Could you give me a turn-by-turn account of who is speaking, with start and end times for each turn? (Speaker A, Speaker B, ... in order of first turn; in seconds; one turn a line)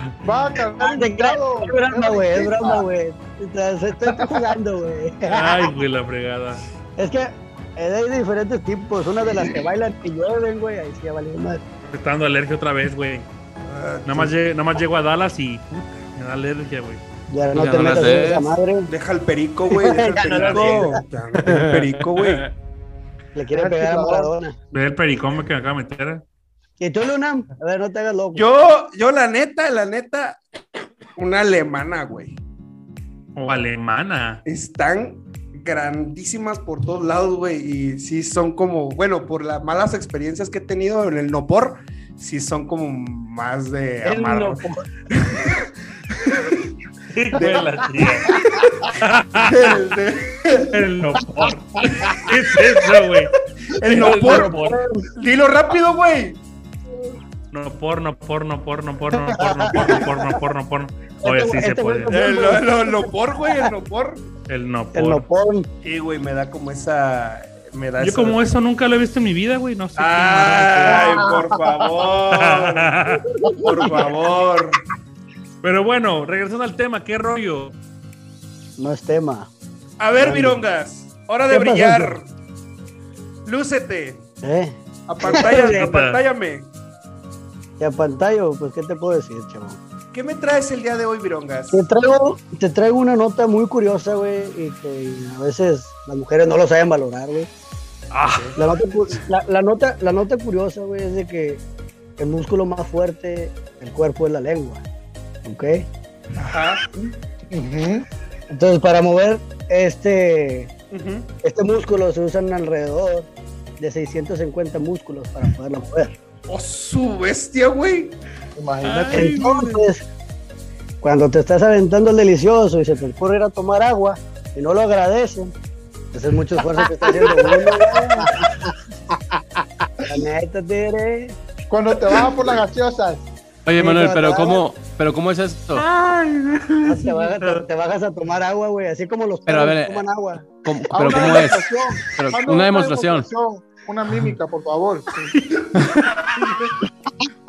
Speaker A: 0.2-2.8
Speaker B: 0.8-5.7
Speaker C: 5.3-6.7
Speaker B: 7.0-11.6
Speaker C: 11.9-13.3
Speaker D: 13.6-14.3
Speaker C: 14.0-17.0
Speaker B: 17.3-18.9
Speaker E: 17.5-18.5
Speaker D: 18.9-22.4
Speaker B: 19.7-21.0
Speaker E: 20.3-20.9
Speaker E: 21.4-22.5
Speaker B: 23.3-24.6
Speaker A: 23.5-24.3
Speaker C: 24.7-26.2
Speaker B: 26.8-28.4
Speaker D: 28.3-30.4
Speaker D: 31.1-32.4
Speaker C: 33.4-34.4
Speaker D: 34.5-44.6
Speaker B: 44.0-44.8
Speaker D: 45.1-45.6
Speaker D: 46.2-46.6
Speaker C: 47.1-48.3
Speaker D: 47.4-48.6
Speaker C: 48.9-49.8
Speaker D: 49.4-50.8
Speaker C: 50.7-54.8
Speaker D: 53.8-54.6
Speaker B: 53.9-55.1
Speaker D: 55.2-56.4
Speaker C: 57.5-62.2
Speaker B: 59.2-60.1
Speaker B: 61.2-63.7
Speaker D: 62.1-64.2
Speaker C: 64.5-65.2
Speaker B: 64.9-65.7
Speaker D: 65.8-68.4
Speaker C: 68.0-71.2
Speaker D: 70.0-73.0
Speaker C: 72.3-73.2
Speaker B: 73.4-74.0
Speaker D: 73.6-74.8
Speaker C: 75.6-77.7
Speaker B: 78.8-79.5
Speaker D: 80.0-82.3
Speaker B: 80.2-80.6
Speaker B: 81.5-82.1
Speaker D: 83.4-84.3
Speaker B: 84.4-85.9
Speaker D: 85.1-86.7
Speaker C: 85.3-86.2
Speaker B: 87.8-89.8
Speaker D: 90.1-91.8
Speaker B: 91.7-97.5
Speaker C: 98.1-98.6
Speaker D: 98.3-98.6
Speaker B: 98.5-101.6
Speaker B: 102.2-104.8
Speaker B: 105.4-105.9
Speaker D: 106.3-106.8
Speaker A: 107.5-108.0
Speaker B: 108.5-110.7
Speaker D: 110.9-111.3
Speaker B: 111.4-116.1
Speaker D: 116.5-118.2
Speaker A: 118.6-119.4
Speaker C: 118.8-119.8
Speaker B: 119.1-120.0
Speaker B: 121.0-125.5
Speaker B: 126.1-128.3
Speaker A: 127.0-128.0
Speaker B: 130.0-131.4
Speaker A: 131.7-133.3
Speaker E: 133.7-135.8
Speaker B: 133.8-134.6
Speaker C: 135.7-137.6
Speaker B: 136.8-140.5
Speaker E: 139.5-143.3
Speaker A: 140.9-145.1